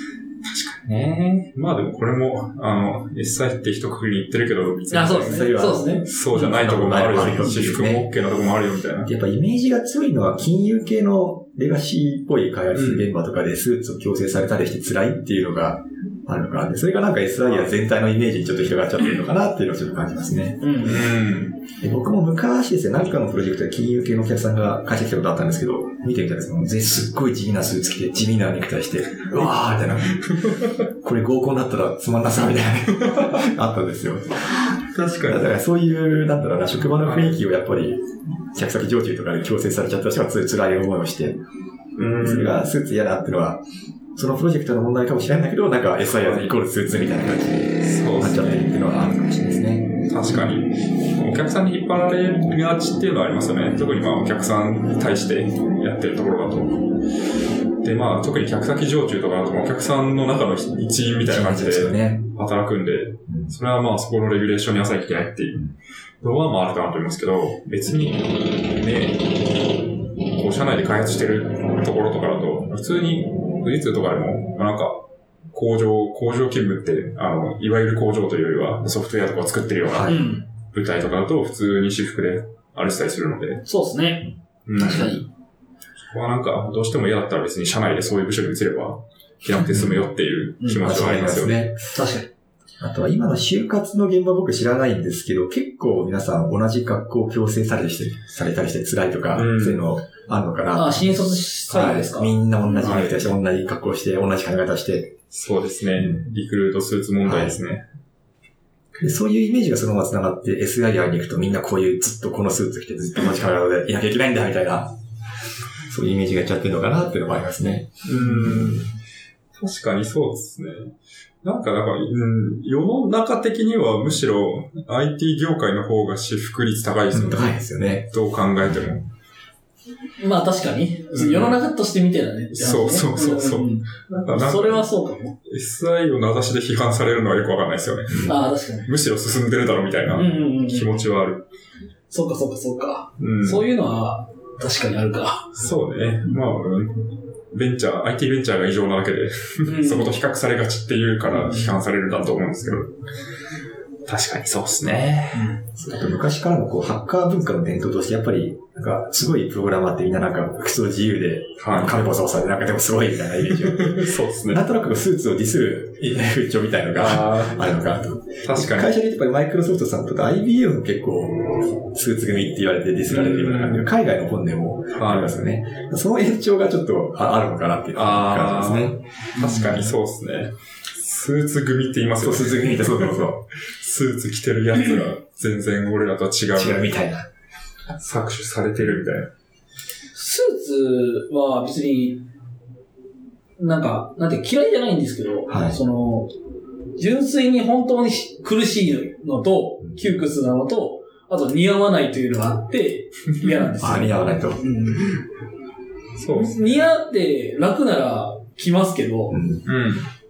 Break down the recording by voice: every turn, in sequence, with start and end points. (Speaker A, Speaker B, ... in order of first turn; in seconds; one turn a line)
Speaker A: 0.4-5.5
Speaker B: 4.9-6.1
Speaker C: 5.2-8.1
Speaker A: 6.0-9.1
Speaker C: 9.1-21.1
Speaker A: 12.7-13.1
Speaker B: 20.6-21.1
Speaker A: 20.8-21.6
Speaker C: 21.8-41.4
Speaker A: 30.1-30.7
Speaker A: 33.0-33.5
Speaker A: 34.9-35.5
Speaker A: 37.0-37.4
Speaker A: 42.0-42.7
Speaker C: 42.2-43.6
Speaker C: 44.1-50.4
Speaker A: 46.0-46.6
Speaker A: 47.8-48.7
Speaker A: 50.0-57.0
Speaker A: 57.8-69.7
Speaker C: 61.2-62.3
Speaker C: 63.3-63.5
Speaker A: 70.3-83.7
Speaker C: 79.9-80.2
Speaker B: 80.1-80.5
Speaker B: 83.7-85.2
Speaker A: 84.7-85.3
Speaker A: 86.1-91.7
Speaker C: 89.7-90.0
Speaker C: 90.8-91.8
Speaker B: 91.9-92.3
Speaker C: 92.8-105.2
Speaker A: 99.3-99.8
Speaker B: 100.8-102.9
Speaker A: 102.8-103.3
Speaker A: 105.3-107.8
Speaker C: 107.2-107.6
Speaker C: 109.0-115.0
Speaker C: 115.9-118.9
Speaker A: 118.0-118.9
Speaker A: 119.5-127.5
Speaker C: 127.1-128.1
Speaker A: 128.1-129.1
Speaker B: 130.2-135.3
Speaker A: 131.1-131.6
Speaker A: 132.5-134.9
Speaker A: 135.4-141.5
Speaker B: 138.2-138.9
Speaker B: 140.1-141.0
Speaker B: 142.1-145.5
Speaker A: 143.2-143.7
Speaker A: 145.5-153.0
Speaker B: 149.7-150.2
Speaker B: 151.4-151.7
Speaker A: 154.1-155.6
Speaker C: 155.8-179.0
Speaker A: 161.6-162.0
Speaker A: 163.5-164.6
Speaker A: 166.9-167.6
Speaker A: 168.4-168.9
Speaker A: 173.1-173.9
Speaker A: 175.0-175.4
Speaker A: 177.9-186.9
Speaker B: 179.4-179.8
Speaker C: 182.2-183.4
Speaker C: 186.6-187.3
Speaker A: 187.9-189.3
Speaker B: 190.1-192.2
Speaker B: 193.6-196.3
Speaker C: 195.5-195.8
Speaker B: 197.0-205.2
Speaker C: 203.8-204.6
Speaker A: 206.2-206.7
Speaker B: 206.3-209.4
Speaker C: 209.3-209.7
Speaker A: 209.7-210.1